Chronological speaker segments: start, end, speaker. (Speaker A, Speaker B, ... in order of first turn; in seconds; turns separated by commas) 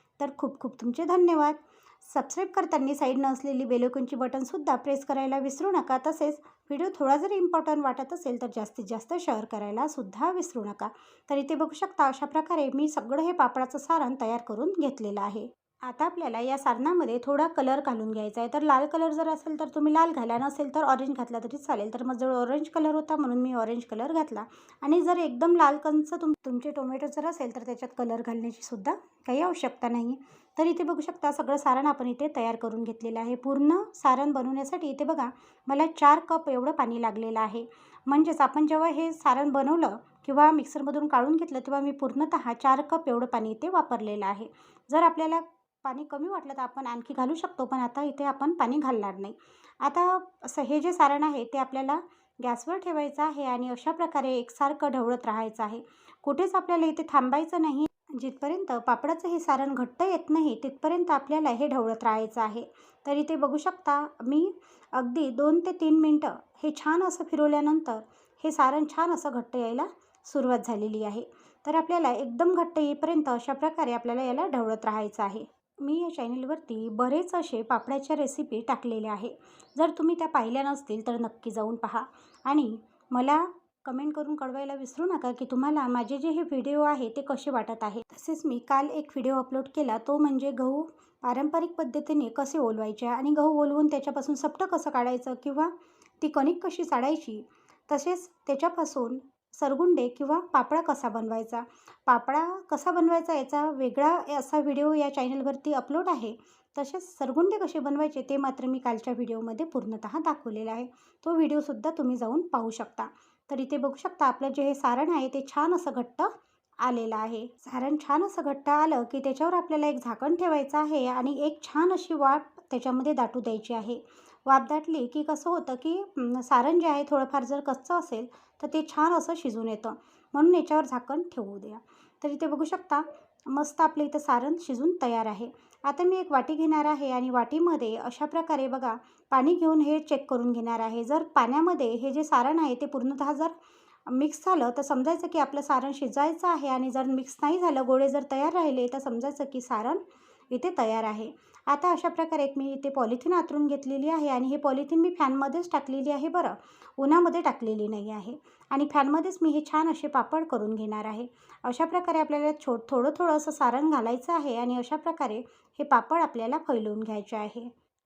Speaker A: 0.2-143.5, Speaker A: 144.1-167.7